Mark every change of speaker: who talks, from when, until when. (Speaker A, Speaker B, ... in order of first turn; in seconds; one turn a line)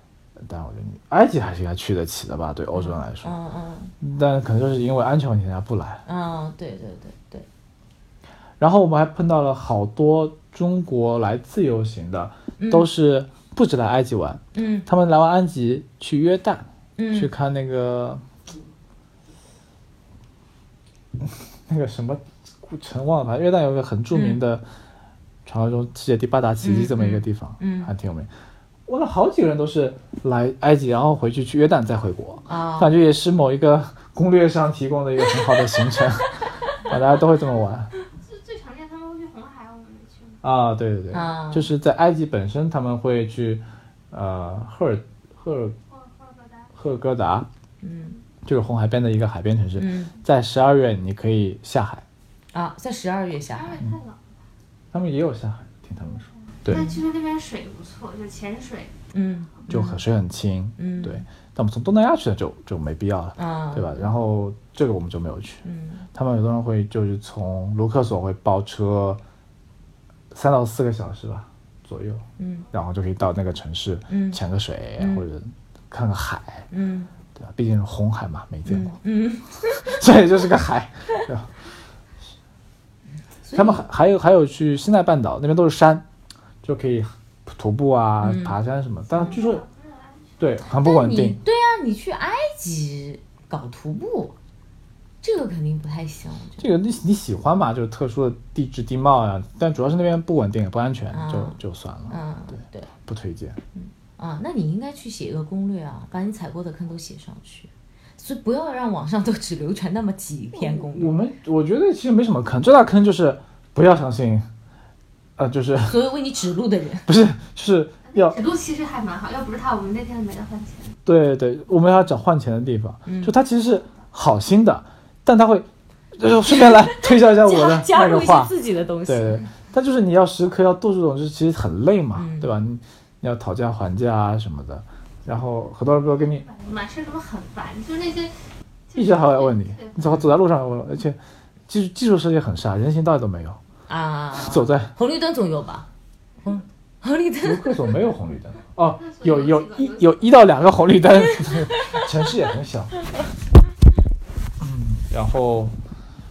Speaker A: 0.4-3.4
Speaker B: 2.7-3.9
Speaker A: 4.0-6.0
Speaker B: 6.0-7.5
Speaker A: 8.6-18.2
Speaker B: 12.6-12.9
Speaker B: 14.5-14.9
Speaker B: 17.0-17.3
Speaker A: 21.7-24.6
Speaker B: 24.1-24.4
Speaker A: 25.4-28.3
Speaker B: 26.6-27.9
Speaker A: 28.9-37.9
Speaker B: 32.5-32.9
Speaker C: 38.2-40.4
Speaker A: 40.4-45.8
Speaker B: 41.1-41.7
Speaker C: 45.8-46.8
Speaker A: 46.8-47.5
Speaker B: 47.8-48.2
Speaker A: 48.4-52.0
Speaker B: 49.8-50.1
Speaker B: 52.5-53.8
Speaker C: 53.5-54.3
Speaker A: 54.9-56.9
Speaker C: 56.6-58.9
Speaker B: 56.7-57.0
Speaker B: 59.1-60.0
Speaker A: 59.7-69.2
Speaker B: 60.8-61.2
Speaker B: 63.4-64.1
Speaker B: 65.6-66.0
Speaker A: 70.3-76.7
Speaker B: 72.4-72.7
Speaker B: 74.1-74.4
Speaker B: 75.0-75.2
Speaker B: 76.7-77.1
Speaker A: 77.3-78.9
Speaker B: 78.7-80.0
Speaker A: 79.7-81.6
Speaker B: 83.4-83.8
Speaker A: 83.5-86.0
Speaker A: 86.6-89.6
Speaker B: 88.2-88.6
Speaker C: 89.1-90.6
Speaker A: 90.4-91.4
Speaker B: 90.7-94.3
Speaker B: 95.2-96.6
Speaker A: 96.6-102.2
Speaker B: 101.1-102.9
Speaker A: 103.0-103.6
Speaker B: 103.7-111.1
Speaker A: 110.5-114.5
Speaker A: 115.4-116.0
Speaker B: 115.8-117.1
Speaker A: 117.0-118.4
Speaker C: 118.0-121.0
Speaker A: 121.0-136.4
Speaker B: 123.0-123.3
Speaker B: 126.5-129.5
Speaker B: 132.1-132.5
Speaker C: 136.3-138.3
Speaker C: 138.9-140.0
Speaker A: 138.9-143.6
Speaker B: 143.9-145.9
Speaker A: 144.4-144.9
Speaker B: 146.4-147.9
Speaker A: 147.4-152.9
Speaker C: 149.0-150.2
Speaker B: 151.2-152.1
Speaker A: 154.6-155.7